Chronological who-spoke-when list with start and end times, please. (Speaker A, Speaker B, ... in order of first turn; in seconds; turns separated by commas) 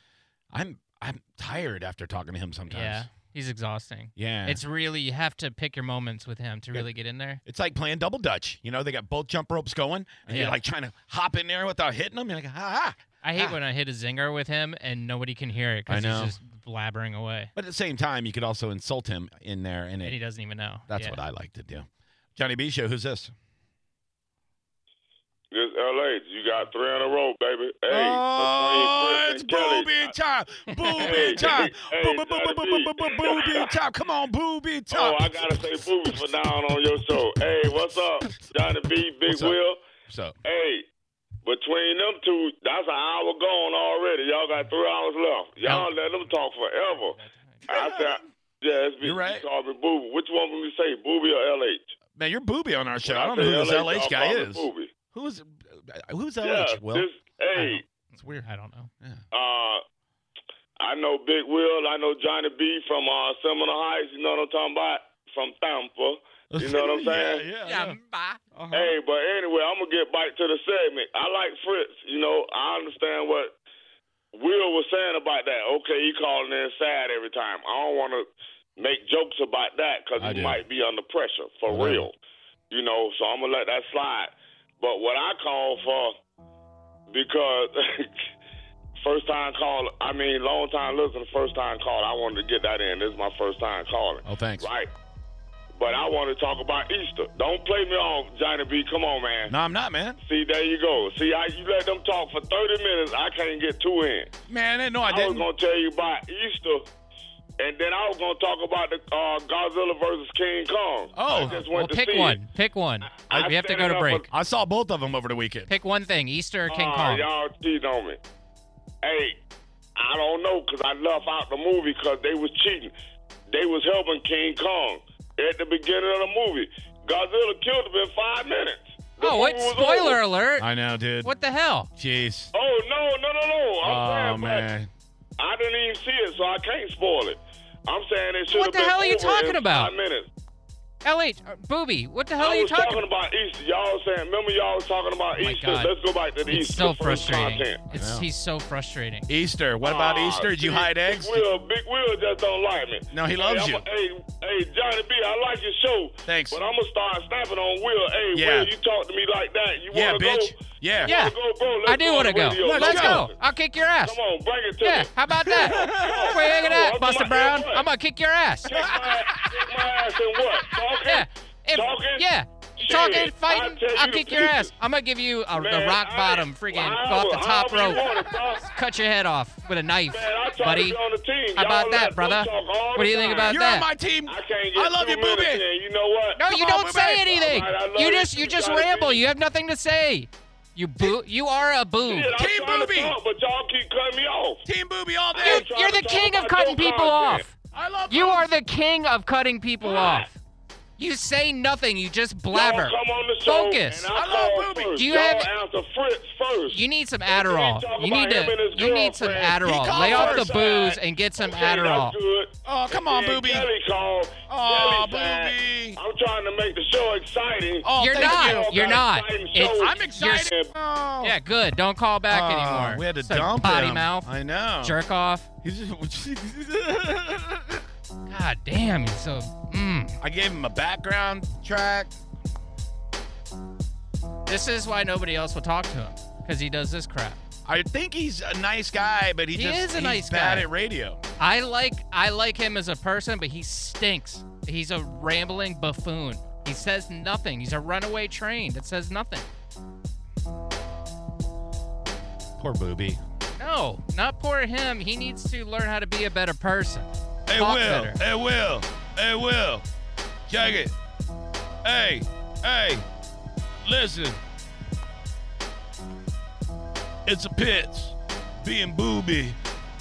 Speaker A: 0.5-3.1, Speaker B: 2.7-7.4, Speaker A: 4.2-4.6, Speaker A: 7.5-13.6, Speaker B: 10.3-10.6, Speaker B: 13.2-17.5, Speaker A: 15.9-16.4, Speaker A: 17.6-20.2, Speaker B: 20.0-21.2, Speaker A: 20.9-23.3, Speaker C: 25.5-30.1, Speaker A: 27.9-35.6, Speaker B: 30.7-31.5, Speaker C: 31.0-33.7, Speaker C: 34.9-39.8, Speaker A: 39.3-39.6, Speaker A: 40.1-40.4, Speaker C: 40.4-40.9, Speaker C: 41.5-47.2, Speaker A: 45.6-45.9, Speaker B: 46.9-47.7, Speaker A: 47.7-48.2, Speaker C: 47.7-51.9, Speaker A: 49.0-49.4, Speaker A: 52.2-57.1, Speaker C: 53.1-54.9, Speaker C: 56.4-57.8, Speaker B: 57.6-58.9, Speaker A: 58.2-58.5, Speaker C: 59.3-59.8, Speaker C: 60.8-67.5, Speaker A: 66.5-68.0, Speaker B: 67.6-68.4, Speaker A: 68.5-69.0, Speaker C: 68.7-73.5, Speaker C: 74.3-82.2, Speaker A: 80.2-80.6, Speaker A: 81.7-82.1, Speaker C: 82.7-86.2, Speaker C: 87.1-88.1, Speaker C: 89.0-94.9, Speaker A: 94.2-94.7, Speaker C: 95.8-99.5, Speaker A: 99.5-100.2, Speaker C: 100.2-104.3, Speaker A: 104.5-105.5, Speaker C: 105.0-106.9, Speaker C: 107.6-112.4, Speaker A: 111.2-111.6, Speaker B: 111.3-114.3, Speaker C: 113.1-114.3, Speaker A: 114.3-115.7, Speaker B: 115.7-117.2, Speaker C: 116.7-118.2, Speaker C: 119.0-119.4, Speaker C: 120.0-122.9, Speaker C: 123.5-130.2, Speaker B: 129.2-130.7, Speaker A: 130.6-131.3, Speaker B: 131.2-131.9, Speaker A: 132.0-132.5, Speaker C: 132.5-134.7, Speaker A: 133.8-134.9, Speaker C: 135.4-140.3, Speaker B: 138.5-139.9, Speaker B: 141.0-143.1, Speaker C: 142.4-147.8, Speaker B: 145.3-149.3, Speaker A: 147.9-148.3, Speaker A: 149.3-151.4, Speaker C: 149.8-163.3, Speaker A: 153.1-153.8, Speaker A: 156.3-156.6, Speaker A: 158.3-158.7, Speaker A: 159.9-161.2, Speaker B: 161.1-164.2, Speaker A: 162.6-163.2, Speaker C: 164.0-167.9, Speaker B: 164.8-168.8, Speaker A: 165.3-166.7, Speaker C: 168.7-172.3, Speaker A: 168.7-169.8, Speaker A: 170.5-170.8, Speaker B: 171.0-181.0, Speaker C: 172.8-174.7, Speaker C: 175.5-178.6, Speaker C: 180.1-183.6, Speaker B: 181.5-183.9, Speaker A: 183.5-185.6, Speaker C: 184.3-186.5, Speaker B: 186.3-192.3, Speaker A: 186.5-187.3, Speaker C: 187.3-189.2, Speaker C: 192.0-194.6, Speaker A: 192.3-193.2, Speaker A: 194.7-195.7, Speaker C: 195.3-197.4, Speaker B: 195.3-197.6, Speaker A: 197.7-198.5, Speaker B: 198.1-200.4, Speaker C: 199.8-200.3, Speaker B: 201.0-204.1, Speaker C: 202.5-220.7, Speaker A: 204.1-205.2, Speaker B: 204.9-205.5, Speaker B: 206.7-212.2, Speaker A: 209.6-210.6, Speaker A: 212.7-213.7, Speaker A: 214.5-216.0, Speaker A: 217.8-219.0, Speaker B: 217.9-220.5, Speaker A: 219.7-221.4, Speaker B: 221.2-225.5, Speaker A: 222.3-225.0, Speaker A: 225.6-227.8, Speaker B: 228.3-230.2, Speaker A: 230.2-232.2, Speaker B: 234.5-237.4, Speaker A: 237.7-241.2, Speaker B: 239.5-240.7, Speaker B: 241.4-249.5, Speaker A: 252.6-253.2, Speaker B: 253.6-258.2, Speaker A: 257.5-259.9, Speaker A: 260.5-260.9, Speaker A: 261.8-263.0, Speaker A: 263.8-264.4, Speaker A: 267.2-269.6